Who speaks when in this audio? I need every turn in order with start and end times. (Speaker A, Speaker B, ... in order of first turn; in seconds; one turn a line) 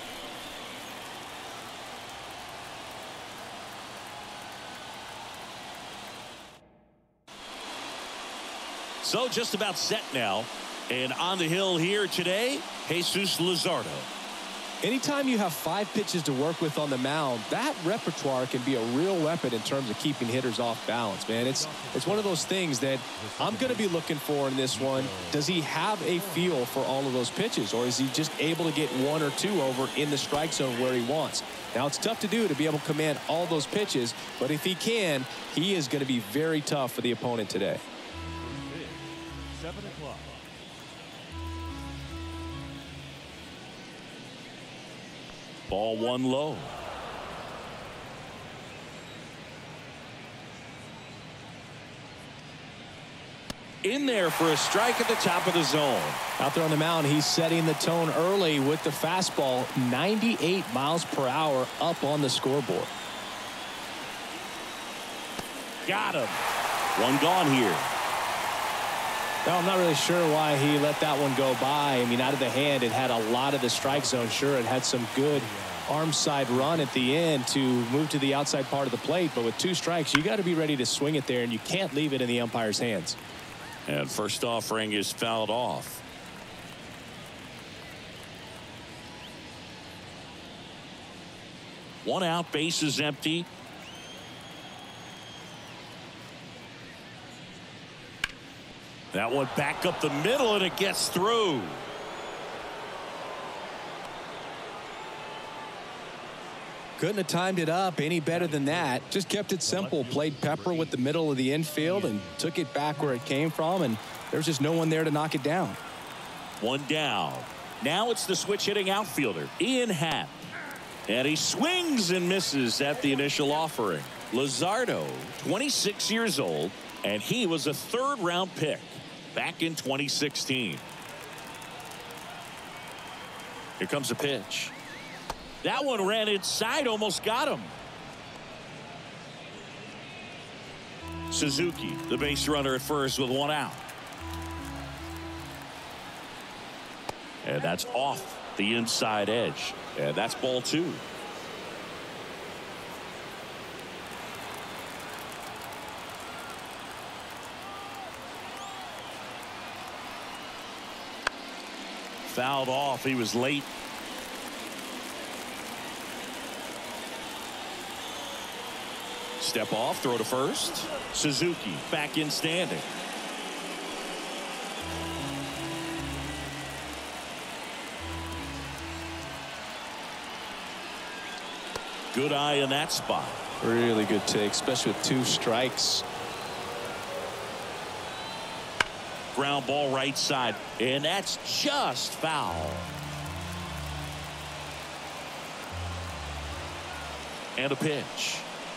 Speaker A: 9.0-14.1
Speaker B: 14.8-37.8
Speaker C: 21.3-22.5
Speaker C: 23.2-24.0
Speaker C: 24.7-25.5
Speaker C: 26.1-26.6
Speaker C: 38.4-40.4
Speaker A: 45.7-46.7
Speaker A: 53.8-56.2
Speaker B: 56.4-62.9
Speaker A: 65.8-66.4
Speaker A: 67.0-67.9
Speaker B: 69.5-83.2
Speaker C: 73.8-74.5
Speaker C: 75.3-77.1
Speaker A: 83.9-86.0
Speaker A: 92.0-93.5
Speaker A: 99.1-101.9
Speaker B: 107.0-115.8
Speaker C: 108.3-111.0
Speaker C: 111.7-112.4
Speaker A: 116.6-120.5
Speaker A: 121.1-130.8
Speaker A: 133.8-134.7
Speaker A: 135.6-137.7
Speaker A: 141.3-143.8
Speaker A: 147.4-151.0
Speaker A: 162.3-163.7
Speaker A: 169.4-172.9
Speaker A: 182.1-183.4
Speaker B: 183.6-186.0
Speaker A: 189.3-192.9
Speaker A: 197.6-198.5